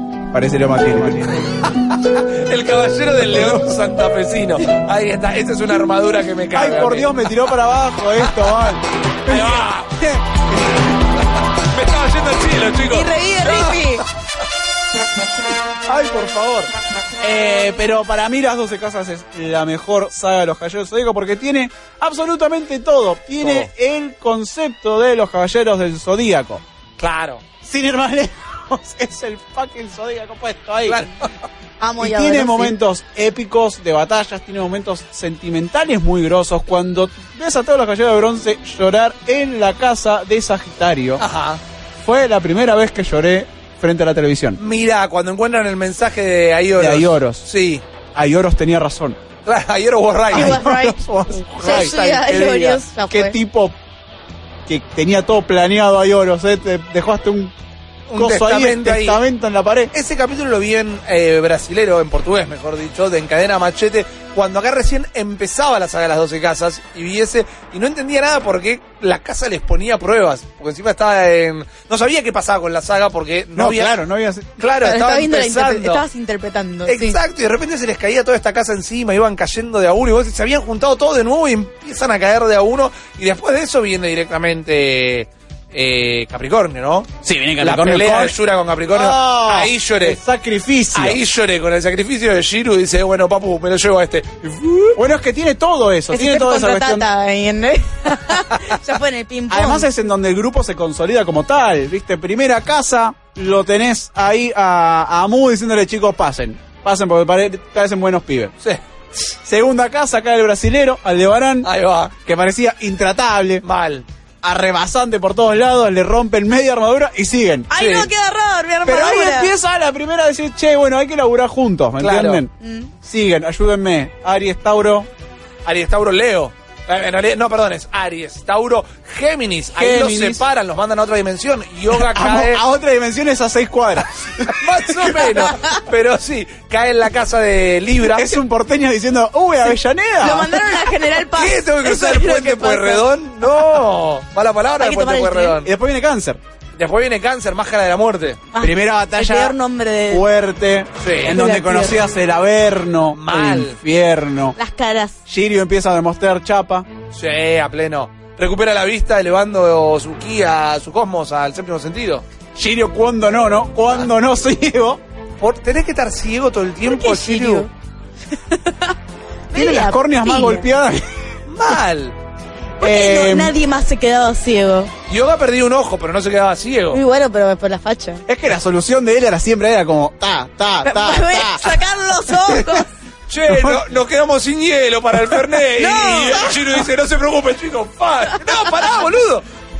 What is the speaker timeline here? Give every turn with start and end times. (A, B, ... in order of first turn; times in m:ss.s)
0:00.3-0:01.4 A
0:01.4-0:07.4 B
0:03.3-0:03.7 A
0:06.5-0:10.9 A
0:08.2-0:08.6 B
0:09.3-0:10.0 B
0:11.1-0:13.9 B
0:12.9-0:14.0 C
0:15.9-0:16.7 A
0:17.2-0:26.6 A
0:23.4-0:23.7 B
0:27.0-0:27.4 B
0:27.6-0:31.0 A
0:30.9-0:31.3 B
0:31.8-0:32.7 C
0:32.0-0:41.2 A
0:41.2-0:41.6 B
0:42.0-0:44.6 A
0:44.6-0:47.8 B
0:46.8-0:47.4 A
0:48.1-0:49.2 A
0:49.4-0:50.6 B
0:50.3-0:53.4 C
0:50.3-0:53.7 A
0:51.5-0:52.8 B
0:54.7-0:57.5 A
0:58.1-0:59.2 B
0:58.1-0:59.9 A
0:59.9-1:14.0 B
1:13.6-1:14.6 A
1:14.6-1:16.0 B
1:14.8-1:17.2 C
1:16.9-1:30.2 B
1:27.2-1:28.4 A
1:28.9-1:31.2 A
1:30.9-1:35.0 B
1:34.9-1:37.1 A
1:36.1-1:39.9 C
1:39.5-1:48.5 A
1:49.4-1:53.6 A
1:51.6-1:52.1 B
1:53.6-1:54.0 B
1:54.4-1:57.7 A
1:57.7-1:59.5 C
1:57.8-1:58.1 B
1:58.8-2:05.1 A
2:02.0-2:02.4 B
2:02.6-2:02.9 C
2:05.6-2:12.6 B
2:09.8-2:10.4 A
2:11.9-2:15.3 A
2:14.4-2:18.4 B
2:15.4-2:15.7 C
2:17.9-2:20.7 A
2:20.2-2:23.1 C
2:21.4-2:25.7 B
2:24.8-2:25.6 C
2:25.6-2:26.4 A
2:26.8-2:28.4 B
2:28.5-2:30.2 C
2:28.6-2:29.6 A
2:30.1-2:34.6 A
2:31.0-2:31.4 B
2:31.3-2:32.0 C
2:33.1-2:33.8 B
2:34.6-2:35.2 C
2:35.3-2:36.9 A
2:37.1-2:42.2 B
2:42.5-2:45.0 A
2:45.4-2:47.6 B
2:46.8-2:47.7 C
2:48.3-2:49.0 C
2:49.5-2:50.7 C
2:49.5-2:51.2 A
2:51.5-2:52.1 B
2:52.8-2:54.9 C
2:52.8-2:53.5 A
2:55.1-2:57.0 B
2:56.9-2:58.2 C
2:58.3-3:01.8 A
3:00.8-3:02.9 C
3:02.5-3:02.8 A
3:03.3-3:09.4 B
3:03.5-3:03.8 A
3:05.7-3:06.6 C